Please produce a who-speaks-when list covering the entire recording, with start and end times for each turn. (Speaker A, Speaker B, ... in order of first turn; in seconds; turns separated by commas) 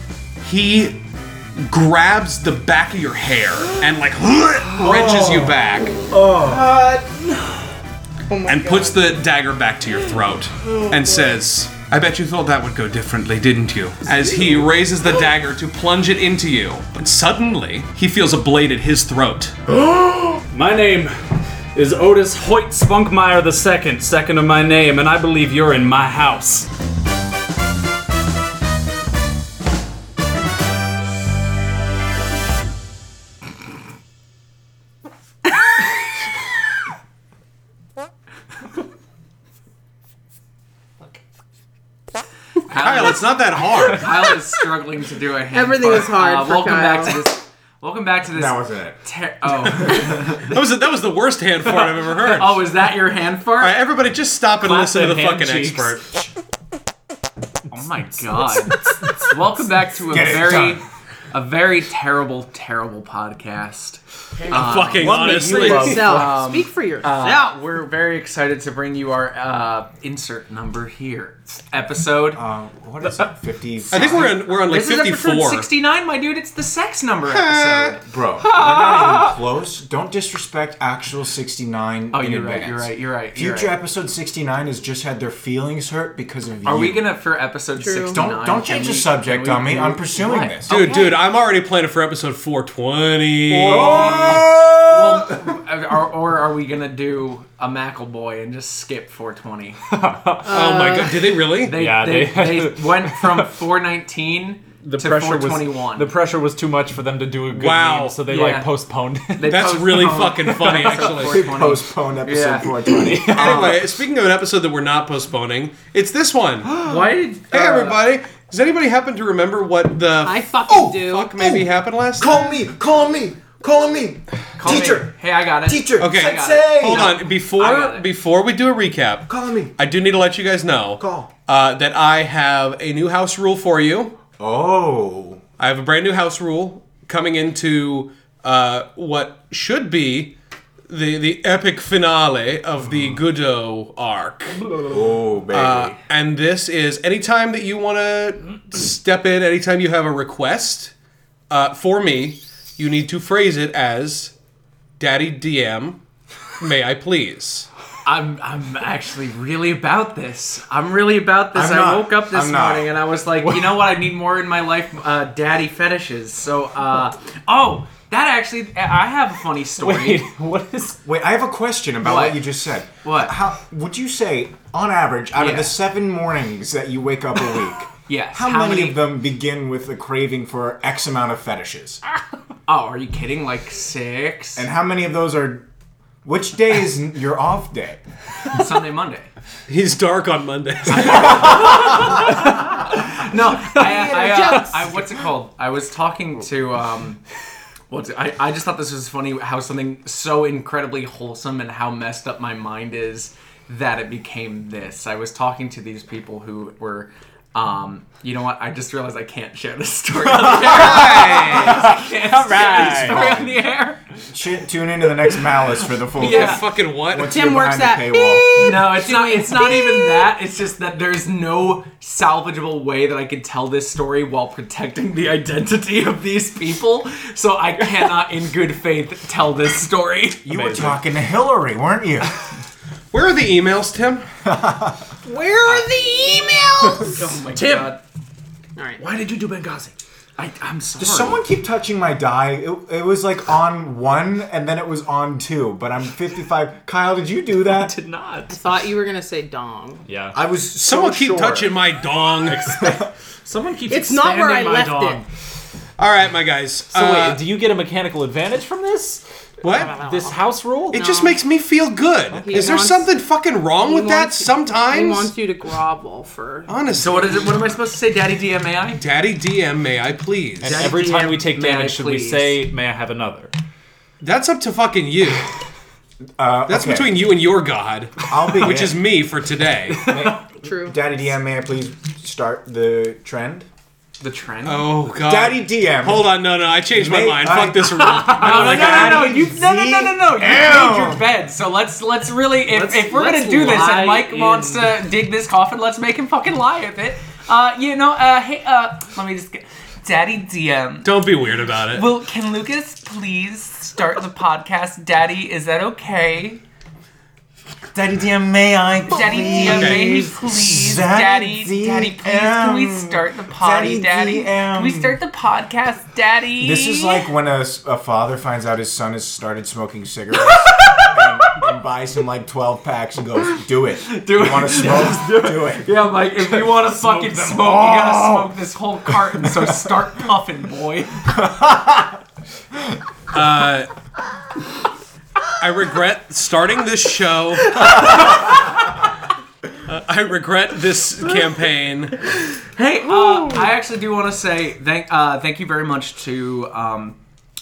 Speaker A: 0.4-1.0, Speaker A: 1.6-6.0, Speaker B: 4.8-5.5, Speaker C: 5.0-5.5, Speaker B: 6.1-6.8, Speaker D: 6.5-7.6, Speaker D: 8.3-9.2, Speaker A: 8.4-19.6, Speaker D: 10.6-11.3, Speaker B: 19.7-21.1, Speaker B: 21.7-26.7, Speaker E: 42.7-50.6, Speaker A: 42.7-44.3, Speaker B: 43.8-44.1, Speaker D: 45.5-47.2, Speaker C: 48.3-49.0, Speaker C: 49.6-50.3, Speaker A: 50.4-52.6, Speaker E: 52.3-53.8, Speaker A: 53.6-56.1, Speaker B: 54.6-56.2, Speaker E: 57.7-72.4, Speaker B: 58.8-59.3, Speaker C: 60.1-60.8, Speaker A: 64.5-66.1, Speaker B: 64.8-66.2, Speaker D: 65.5-67.5, Speaker C: 72.3-74.3, Speaker A: 73.9-75.7, Speaker E: 73.9-78.1, Speaker A: 77.2-78.0, Speaker C: 78.1-87.1, Speaker B: 78.4-79.4, Speaker E: 82.1-83.7, Speaker E: 86.6-91.2, Speaker D: 87.8-88.2, Speaker C: 88.0-90.8, Speaker A: 90.7-94.1, Speaker C: 93.5-95.4, Speaker E: 93.6-99.8, Speaker B: 93.7-94.4, Speaker B: 99.9-100.5, Speaker A: 100.4-101.8, Speaker D: 100.5-101.4, Speaker E: 101.6-106.1, Speaker B: 101.7-103.5, Speaker B: 104.8-109.6, Speaker A: 107.5-108.2, Speaker E: 108.3-108.7, Speaker E: 109.3-112.8, Speaker A: 109.4-111.3, Speaker C: 111.0-113.8, Speaker B: 112.9-113.8, Speaker A: 113.3-116.8, Speaker B: 116.7-117.0, Speaker E: 116.8-118.0, Speaker A: 117.5-122.5, Speaker D: 120.2-121.3, Speaker C: 120.7-127.1, Speaker E: 124.6-128.1, Speaker A: 126.0-134.2, Speaker C: 129.3-129.7, Speaker C: 131.0-131.3, Speaker C: 134.4-135.4, Speaker A: 135.6-140.3, Speaker A: 140.9-144.7, Speaker C: 144.9-146.0, Speaker A: 145.5-150.9, Speaker A: 151.5-154.3, Speaker A: 155.0-156.0, Speaker A: 156.6-157.7, Speaker E: 158.0-170.3, Speaker C: 161.5-162.9, Speaker B: 169.8-171.0, Speaker C: 171.0-182.0, Speaker E: 172.0-172.5, Speaker E: 173.0-173.3, Speaker E: 175.3-175.8, Speaker E: 178.1-179.0, Speaker E: 182.7-184.7, Speaker C: 184.6-185.7, Speaker C: 186.2-188.0, Speaker E: 188.5-189.3, Speaker A: 189.7-192.0, Speaker E: 190.9-192.3, Speaker B: 192.0-192.8, Speaker E: 192.8-197.2, Speaker D: 193.7-194.9, Speaker E: 197.9-214.0, Speaker C: 210.3-211.9, Speaker A: 210.6-211.8, Speaker B: 210.9-213.4, Speaker C: 212.8-213.6, Speaker C: 214.3-218.5, Speaker E: 216.1-216.6, Speaker A: 216.2-217.3, Speaker D: 217.2-220.3, Speaker E: 218.5-230.9, Speaker C: 230.4-232.3, Speaker B: 230.5-231.0, Speaker A: 233.1-234.3, Speaker C: 234.4-235.0, Speaker D: 235.2-237.4, Speaker E: 237.0-238.0, Speaker B: 237.5-237.9, Speaker B: 239.0-239.9, Speaker E: 240.4-241.4, Speaker C: 241.0-247.9, Speaker B: 247.7-248.6, Speaker D: 248.5-250.0, Speaker B: 250.1-250.4, Speaker C: 250.3-251.8, Speaker A: 250.8-252.8, Speaker B: 252.4-255.3, Speaker D: 253.9-255.2, Speaker A: 256.0-257.4, Speaker B: 256.9-261.1, Speaker A: 259.6-260.0, Speaker D: 259.7-261.4, Speaker A: 260.9-265.3, Speaker B: 262.4-262.7, Speaker D: 262.4-263.1, Speaker D: 263.8-266.7, Speaker A: 266.7-267.8, Speaker E: 267.0-269.0, Speaker A: 269.0-270.9, Speaker E: 270.6-272.6, Speaker B: 270.6-273.5, Speaker A: 274.2-275.4, Speaker C: 276.4-277.2, Speaker A: 276.7-280.1, Speaker C: 278.3-279.0, Speaker B: 280.0-280.4, Speaker C: 280.0-283.7, Speaker D: 280.6-280.9, Speaker E: 284.2-284.9, Speaker A: 284.6-289.3, Speaker C: 285.2-286.4, Speaker C: 286.9-291.3, Speaker B: 288.0-288.7, Speaker E: 288.3-301.1, Speaker B: 292.7-294.9, Speaker A: 301.0-302.1, Speaker E: 301.9-306.6, Speaker C: 307.9-315.2, Speaker E: 309.1-317.3, Speaker A: 309.7-310.3, Speaker C: 316.6-325.9, Speaker E: 320.4-321.6, Speaker E: 324.0-331.3, Speaker B: 327.2-327.7, Speaker C: 327.6-328.1, Speaker C: 331.3-332.1, Speaker A: 333.3-333.9, Speaker A: 335.6-338.6, Speaker A: 339.8-342.1, Speaker E: 342.6-347.2, Speaker D: 343.2-343.6